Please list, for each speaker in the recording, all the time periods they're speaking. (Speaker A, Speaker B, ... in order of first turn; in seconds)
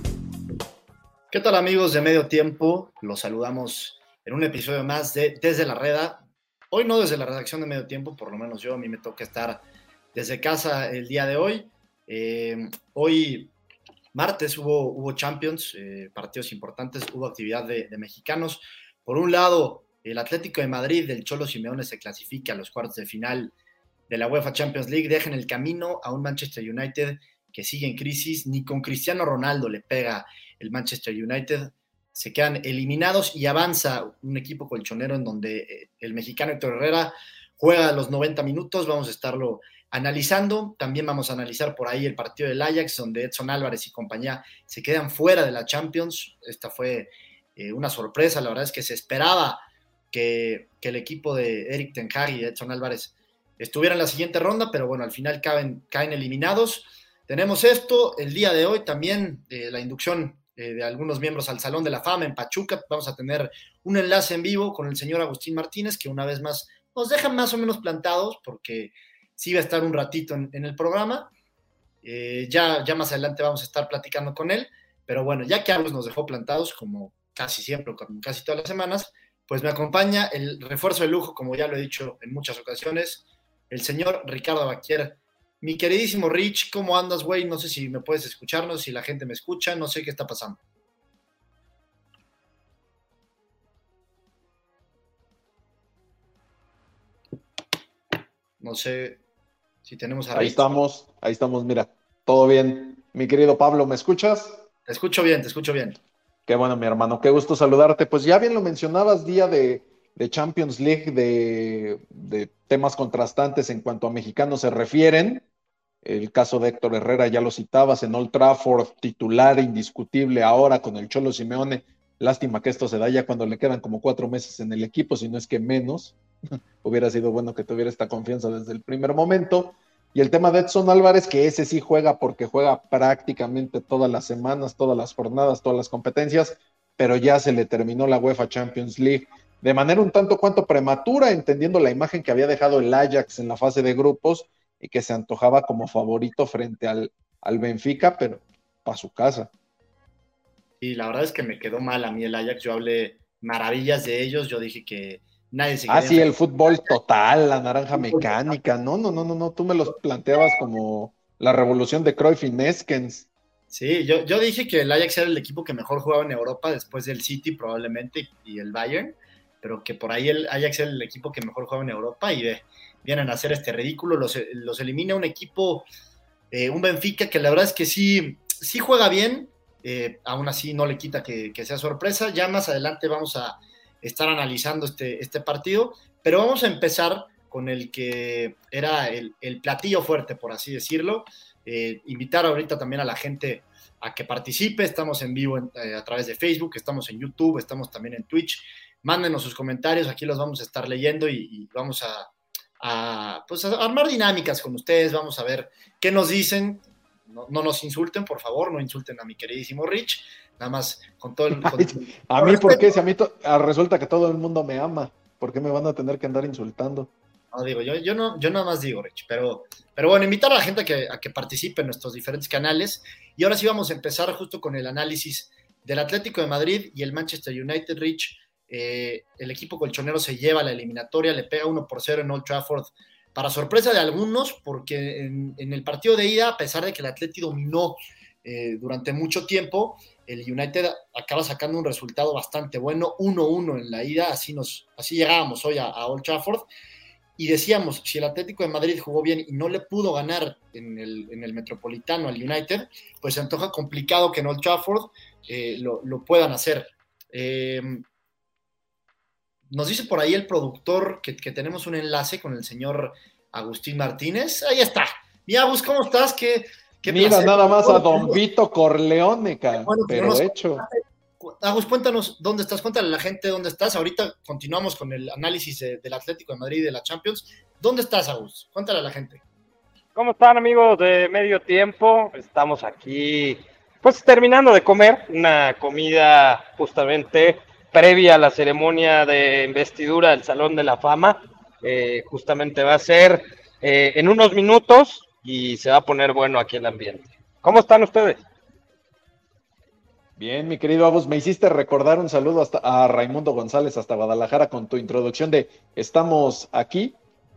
Speaker A: 1.3-9.6, 10.1-13.5, 14.1-23.5, 24.1-71.3, 72.0-90.6, 98.6-99.2, 99.8-100.8, 104.9-106.0, 150.8-156.9, 157.9-158.5, 163.7-175.9, 176.5-212.9, 217.5-246.7, 247.4-258.1, 259.7-268.4, 269.7-279.4
Speaker B: 100.3-104.6, 106.5-115.4, 116.0-126.2, 126.8-149.5, 155.9-163.3, 211.6-217.1, 267.1-270.9, 300.4-307.1
Speaker C: 280.1-298.4